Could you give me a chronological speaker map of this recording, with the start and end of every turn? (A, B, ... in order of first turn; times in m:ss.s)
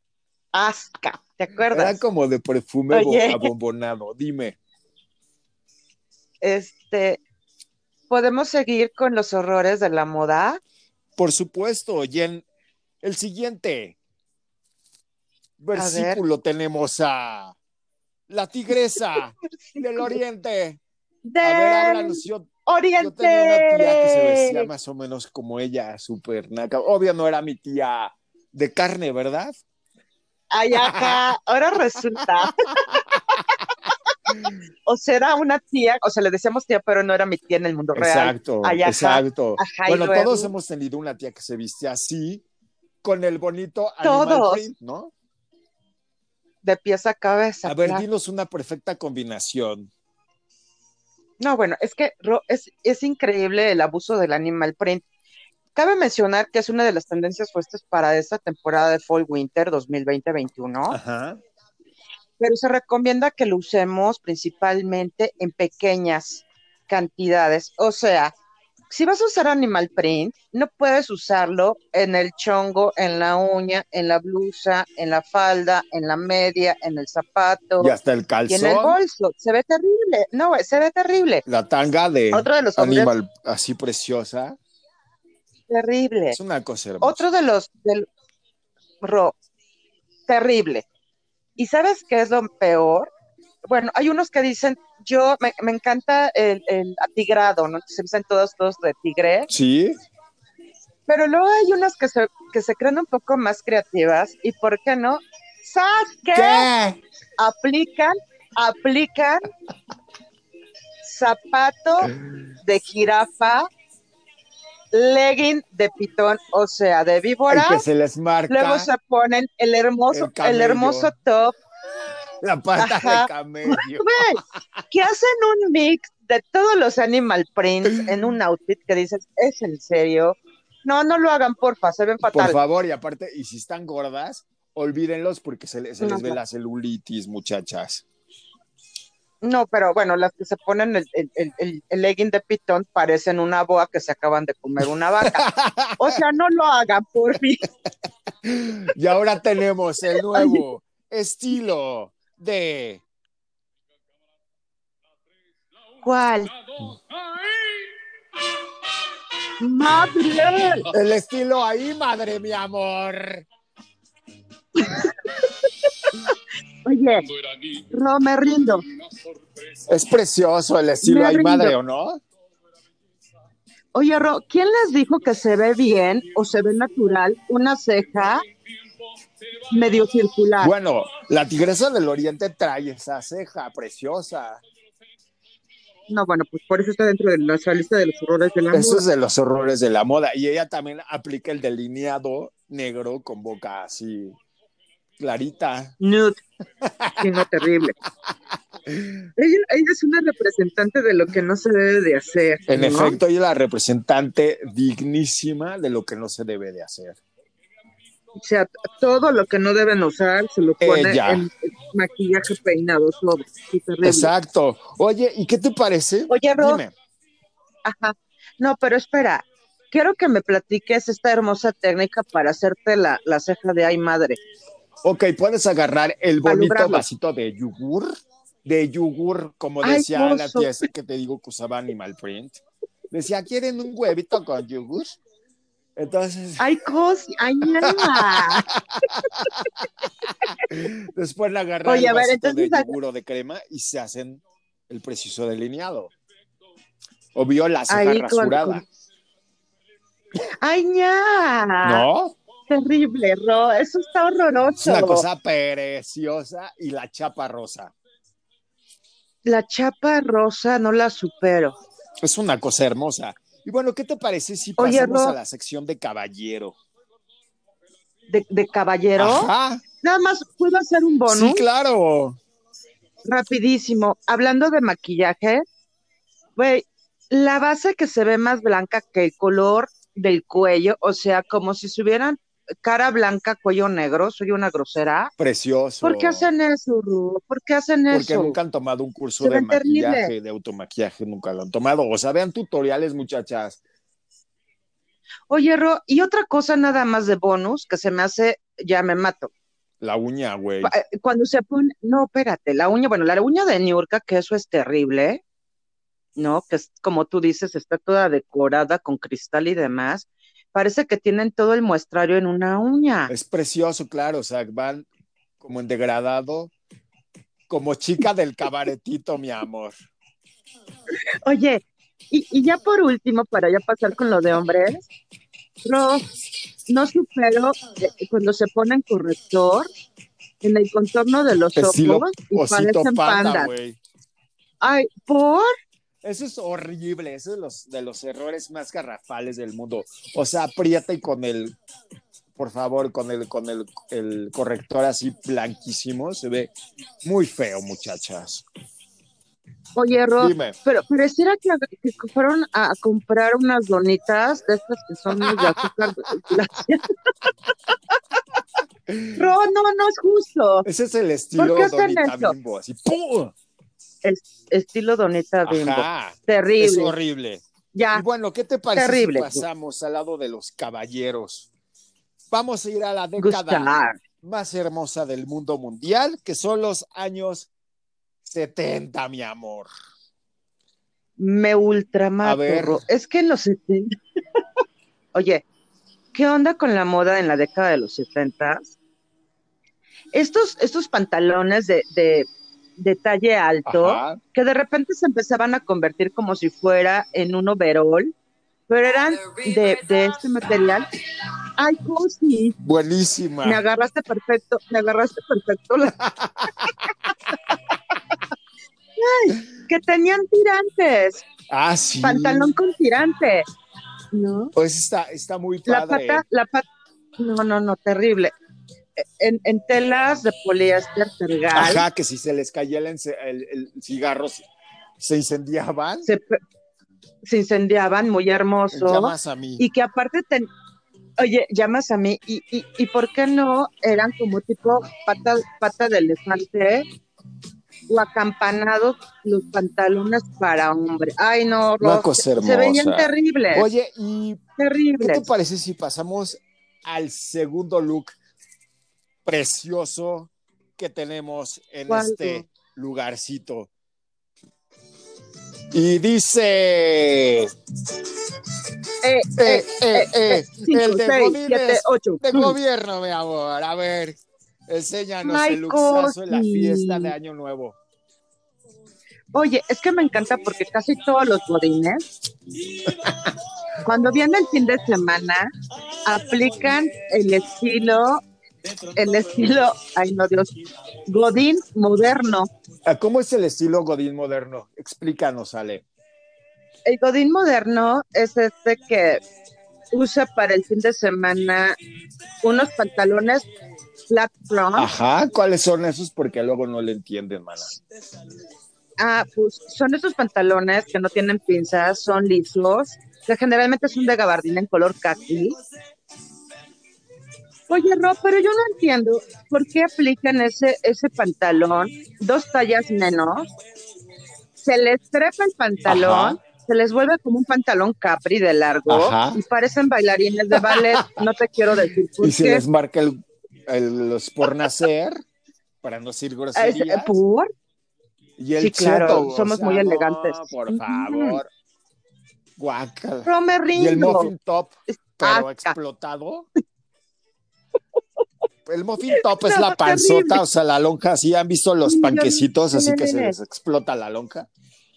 0:00.5-0:02.0 A
0:01.7-0:04.6 B
0:02.9-0:03.5 A
0:06.4-0:07.2 A
0:08.1-0:10.6 A
0:11.2-0:12.4 B
0:13.0-0:14.0 B
0:15.6-0:17.5 B
0:15.7-0:16.2 A
0:18.3-0:20.8 B
0:19.7-0:20.2 A
0:21.2-0:24.7 A
0:21.4-0:22.5 B
0:23.0-0:29.6 B
0:30.5-0:32.8 A
0:30.7-0:31.2 B
0:32.4-0:33.0 B
0:34.8-0:40.5 A
0:37.9-0:42.4 B
0:43.0-0:45.1 B
0:44.0-0:44.6 A
0:46.6-0:48.0 A
0:47.6-0:49.9 B
0:51.4-0:55.0 A
0:55.7-1:01.0 A
1:00.9-1:01.4 B
1:02.4-1:08.3 A
1:08.9-1:17.9 A
1:17.8-1:19.0 B
1:18.5-1:21.4 A
1:21.4-1:24.6 B
1:22.3-1:23.1 A
1:25.7-1:26.4 A
1:26.3-1:27.2 B
1:27.0-1:28.1 A
1:29.0-1:29.3 A
1:30.3-1:30.8 A
1:31.6-1:33.1 A
1:33.6-1:39.5 A
1:39.5-1:40.0 B
1:41.1-1:46.7 A
1:46.3-1:47.0 B
1:47.4-1:49.5 A
1:51.0-1:53.7 A
1:54.9-1:57.8 A
1:57.5-1:58.9 B
1:58.5-2:01.6 A
2:00.1-2:01.1 B
2:02.4-2:04.2 B
2:02.8-2:12.6 A
2:12.3-2:18.0 B
2:16.0-2:16.4 A
2:19.4-2:25.5 A
2:25.2-2:26.2 B
2:26.0-2:27.6 A
2:28.4-2:33.0 B
2:30.3-2:30.6 A
2:36.0-2:36.5 A
2:39.6-2:40.9 A
2:40.9-2:43.4 B
2:44.8-2:45.2 A
2:46.8-2:47.3 A
2:47.9-2:48.8 A
2:49.8-2:52.2 B
2:51.0-2:51.7 A
2:53.9-2:58.4 A
2:59.7-3:00.7 A
3:00.6-3:04.6 B
3:06.1-3:09.0 A
3:08.7-3:14.4 B
3:15.2-3:15.9 B
3:16.0-3:16.4 A
3:16.8-3:17.4 B
3:17.2-3:17.9 A
3:18.9-3:19.2 B
3:19.4-3:23.2 A
3:22.7-3:27.2 B
3:28.4-3:34.3 A
3:30.8-3:31.5 B
3:34.0-3:36.9 B
3:36.3-3:36.8 A
3:37.8-3:44.4 A
3:45.0-3:48.1 B
3:46.4-3:47.0 A
3:48.6-3:55.2 B
3:49.8-3:50.7 A
3:56.0-3:56.6 B
3:56.6-3:58.7 A
3:57.8-3:59.7 B
4:00.6-4:06.1 B
4:01.8-4:02.9 A
4:07.3-4:08.8 B
4:07.9-4:08.8 A
4:10.6-4:12.0 A
4:11.8-4:12.4 B
4:12.7-4:15.2 A
4:14.8-4:17.9 B
4:19.4-4:21.8 A
4:22.2-4:26.8 B
4:24.8-4:25.4 A
4:28.3-4:29.5 A
4:29.2-4:29.8 B
4:30.0-4:31.6 A
4:31.3-4:32.4 B
4:33.2-4:35.6 A
4:36.6-4:45.3 A
4:45.4-4:46.5 B
4:46.0-4:48.6 A
4:48.1-4:53.8 B
4:49.4-4:50.3 A
4:55.5-4:59.5 A
5:00.0-5:00.9 B
5:00.8-5:05.4 A
5:06.4-5:13.3 A
5:13.3-5:15.1 B
5:15.6-5:16.7 B
5:17.7-5:19.9 B
5:21.4-5:25.1 A
5:25.8-5:26.2 A
5:26.9-5:29.9 A
5:30.6-5:33.7 A
5:31.8-5:34.0 B
5:34.8-5:35.7 A
5:36.2-5:41.7 B
5:42.6-5:46.7 B
5:47.2-5:48.6 B
5:50.0-5:57.1 A
5:50.4-5:50.8 B
5:55.4-5:55.9 B
5:59.1-5:59.4 B
5:59.3-6:00.8 A
6:00.8-6:03.5 B
6:01.6-6:02.5 A
6:04.2-6:07.1 A
6:05.6-6:11.7 B
6:07.9-6:08.2 A
6:08.9-6:09.6 A
6:12.5-6:17.7 B
6:13.4-6:14.2 A
6:18.4-6:19.9 B
6:21.4-6:24.2 A
6:22.4-6:23.0 B
6:25.3-6:25.6 A
6:26.3-6:29.0 A
6:30.3-6:38.3 A
6:33.8-6:34.4 B
6:38.9-6:41.1 A
6:41.8-6:42.8 A
6:42.8-6:43.8 B
6:43.6-6:46.2 A
6:46.2-6:46.9 B
6:49.2-6:51.4 A
6:51.7-6:52.7 B
6:52.2-6:53.7 A
6:54.3-6:54.7 A
6:54.7-6:56.4 B
6:55.9-6:56.8 A
6:57.4-6:58.5 A
6:59.2-7:02.0 A
7:01.7-7:04.6 B
7:05.2-7:06.3 B
7:06.2-7:06.6 A
7:07.4-7:10.7 A
7:08.9-7:09.8 B
7:11.4-7:17.0 A
7:18.1-7:23.9 A
7:22.0-7:24.6 B
7:24.8-7:25.5 A
7:25.2-7:28.4 B
7:29.4-7:33.9 B
7:32.1-7:32.7 A
7:35.9-7:37.7 B
7:39.2-7:42.8 A
7:39.6-7:48.0 B
7:45.4-7:47.3 A
7:49.5-7:52.2 A
7:53.1-7:53.4 B
7:54.0-7:55.7 A
7:56.2-7:58.4 A
7:59.1-8:00.7 A
8:01.2-8:02.7 A
8:03.0-8:06.0 B
8:07.0-8:09.4 A
8:10.1-8:12.0 A
8:12.6-8:13.6 A
8:14.3-8:15.1 A
8:15.0-8:18.0 B
8:19.2-8:25.8 A
8:27.9-8:33.7 A
8:34.8-8:42.8 A
8:36.0-8:36.6 B
8:39.1-8:39.6 B
8:40.7-8:41.4 B
8:42.4-8:45.4 B
8:46.0-8:47.4 B
8:46.7-8:47.7 A
8:48.6-8:51.7 B
8:48.8-8:51.6 A
8:52.8-8:56.7 B
8:53.4-8:54.5 A
8:55.1-8:55.9 A
8:58.8-9:04.7 B
8:59.3-9:00.6 A
9:02.0-9:03.6 A